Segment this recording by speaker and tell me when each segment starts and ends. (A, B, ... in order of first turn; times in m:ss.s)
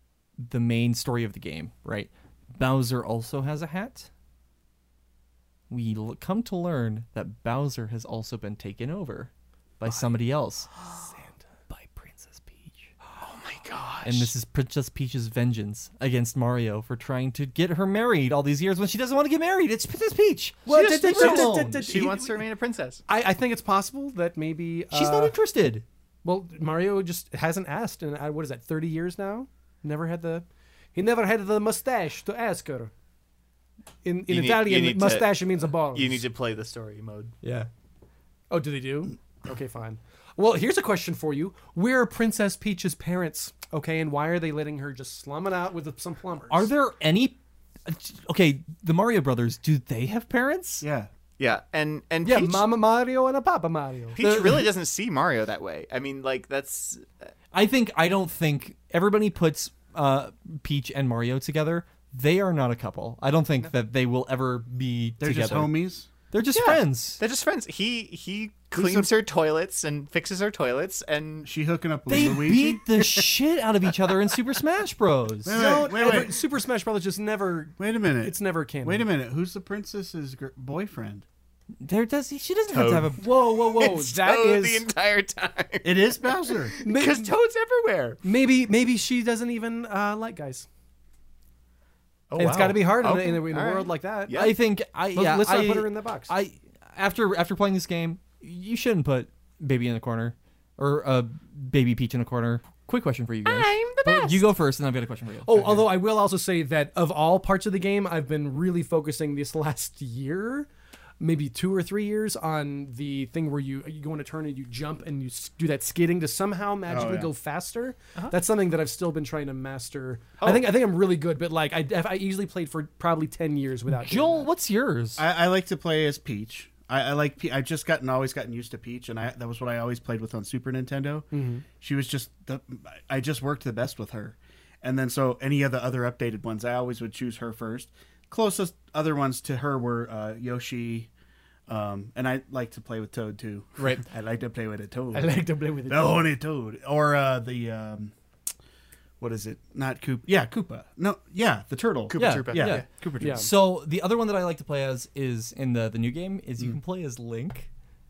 0:00.4-0:04.1 A
0:05.7-0:10.7 A
0:10.8-0:11.1 B
0:11.7-0:12.9 A
0:13.2-0:14.3 B
0:14.0-0:21.9 A
0:20.7-0:22.4 C
0:20.7-0:23.0 B
0:23.1-0:25.4 C
0:24.9-0:25.8 A
0:26.2-0:32.9 C
0:34.0-0:36.2 C
0:34.3-0:37.4 B
0:37.4-0:37.7 A
0:38.5-0:46.7 C
0:46.5-0:50.8 A
0:50.8-0:51.1 D
0:51.4-0:52.7 B
0:52.2-0:54.2 C
0:54.2-0:57.3 B
0:54.2-0:54.7 A
0:57.5-1:05.7 A
1:05.2-1:06.1 D
1:06.3-1:07.2 A
1:06.5-1:11.5 B
1:11.4-1:12.8 D
1:12.1-1:15.8 A
1:15.4-1:16.4 D
1:15.5-1:19.1 C
1:17.8-1:21.2 D
1:21.8-1:23.2 A
1:22.7-1:28.2 B
1:23.2-1:24.9 C
1:25.8-1:26.8 D
1:26.8-1:27.3 C
1:28.2-1:30.7 C
1:32.3-1:34.5 B
1:32.4-1:34.4 C
1:34.3-1:45.9 A
1:35.1-1:36.3 C
1:43.4-1:44.4 B
1:45.4-1:50.7 C
1:51.2-2:04.5 C
1:56.9-1:57.3 D
2:00.4-2:00.7 B
2:03.9-2:05.2 A
2:05.2-2:21.1 D
2:11.3-2:11.6 C
2:21.7-2:28.1 D
2:25.1-2:26.3 C
2:29.2-2:33.4 D
2:32.1-2:32.9 B
2:32.2-2:37.7 A
2:33.2-2:33.5 C